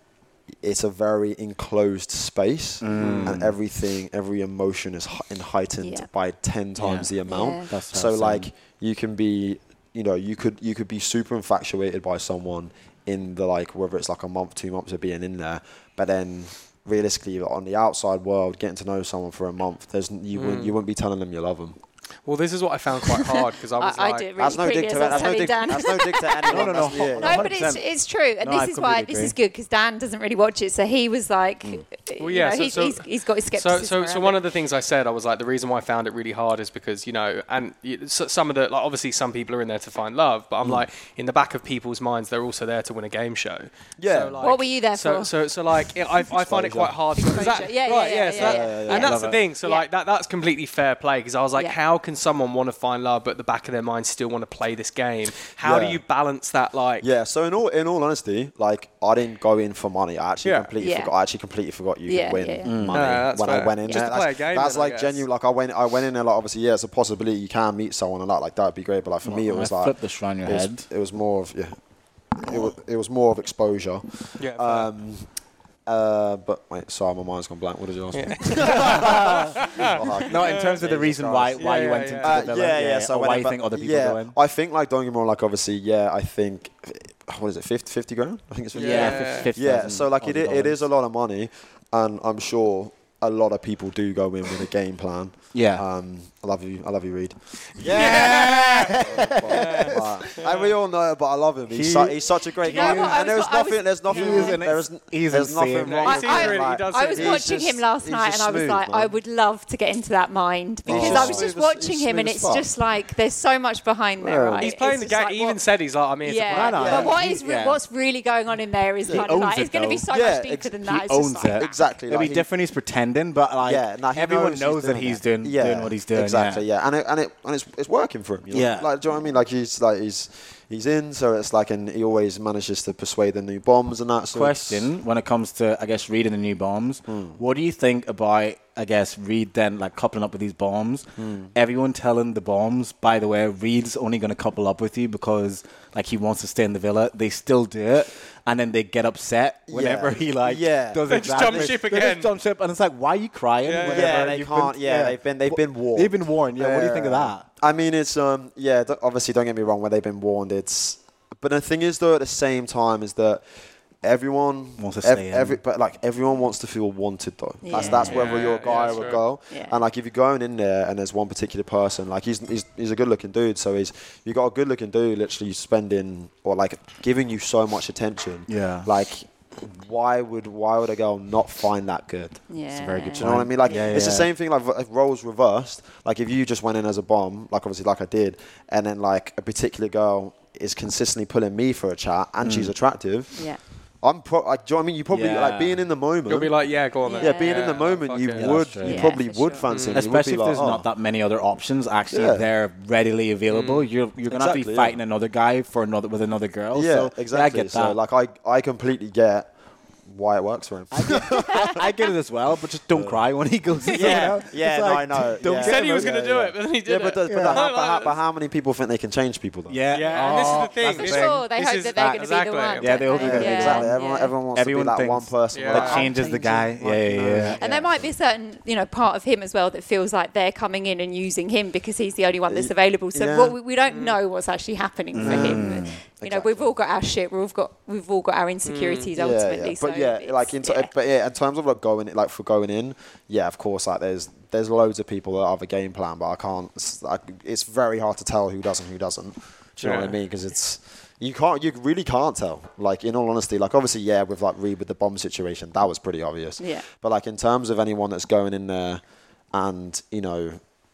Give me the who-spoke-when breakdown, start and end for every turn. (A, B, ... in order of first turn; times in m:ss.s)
0:00.6-0:21.8 A
0:02.8-0:03.6 B
0:03.0-0:03.3 C
0:05.8-0:06.1 D
0:06.8-0:08.5 B
0:07.3-0:07.7 D
0:20.4-0:20.8 C
0:22.3-0:24.3 C
0:23.8-0:34.4 D
0:24.4-0:27.5 A
0:26.5-0:27.8 B
0:28.4-0:29.4 B
0:32.2-0:57.1 C
0:44.0-0:44.4 A
0:44.4-0:45.3 D
0:46.4-0:47.0 A
0:47.2-0:49.9 D
0:48.4-0:49.1 A
0:49.0-0:49.4 B
0:55.6-0:56.0 A
0:57.0-1:11.8 A
1:00.4-1:00.7 C
1:00.8-1:01.1 D
1:02.1-1:02.7 D
1:02.6-1:03.3 B
1:02.9-1:05.2 C
1:09.2-1:10.9 B
1:12.4-1:15.3 A
1:14.4-1:14.9 C
1:15.9-1:49.2 A
1:18.1-1:20.8 C
1:18.6-1:19.7 B
1:20.2-1:24.4 B
1:21.6-1:22.4 C
1:28.7-1:30.9 B
1:28.8-1:29.5 C
1:35.5-1:35.8 B
1:37.8-1:40.2 B
1:37.8-1:39.0 C
1:39.5-1:40.7 C
1:41.7-1:46.2 B
1:42.6-1:44.7 D
1:45.8-1:47.4 C
1:46.1-1:55.6 D
1:50.9-1:52.7 A
1:50.9-1:51.5 B
1:54.2-1:54.7 A
1:54.6-1:57.1 C
1:56.2-2:01.8 D
1:56.5-1:57.8 B
1:56.8-1:57.2 A
1:59.1-2:00.1 B
2:00.1-2:00.8 A
2:00.8-2:06.6 B
2:01.6-2:02.5 A
2:03.6-2:14.9 A
2:08.5-2:08.9 B
2:14.3-2:37.5 B
2:17.1-2:17.4 A
2:21.2-2:21.5 A
2:29.7-2:31.8 A
2:31.1-2:32.3 C
2:33.6-2:34.3 C
2:33.8-2:43.4 A
2:44.0-3:02.4 A
2:44.8-2:45.6 B
2:47.6-2:49.8 D
2:47.7-2:48.2 B
2:48.0-2:49.2 C
2:58.5-2:58.9 B
3:02.5-3:04.0 D
3:02.7-3:04.3 B
3:03.2-3:13.4 A
3:12.4-3:12.7 B
3:13.4-3:13.6 D
3:14.0-3:16.5 A
3:15.1-3:15.9 B
3:16.3-3:18.6 C
3:17.0-3:17.8 D
3:17.2-3:20.9 A
3:18.4-3:19.2 B
3:18.8-3:19.7 D
3:19.7-3:20.0 C
3:19.9-3:28.0 B
3:22.1-3:22.4 A
3:23.5-3:23.9 C
3:24.3-3:25.0 A
3:26.7-3:29.5 A
3:30.1-3:31.8 A
3:30.9-3:36.3 B
3:32.9-3:33.2 A
3:33.9-3:39.8 A
3:35.6-3:38.2 C
3:37.3-3:37.6 B
3:39.7-3:41.5 B
3:39.9-3:43.4 C
3:40.1-3:44.3 D
3:42.8-3:43.9 B
3:43.2-3:48.1 A
3:44.5-3:47.6 B
3:45.5-3:46.1 C
3:45.9-3:46.7 D
3:47.6-4:00.9 D
3:52.5-3:53.6 A
3:53.9-3:54.2 C
3:55.1-3:56.0 B
3:55.2-3:56.8 A
3:58.6-3:59.1 C
3:59.2-4:19.0 A
4:09.8-4:10.1 C
4:16.6-4:16.8 D
4:19.5-4:20.6 A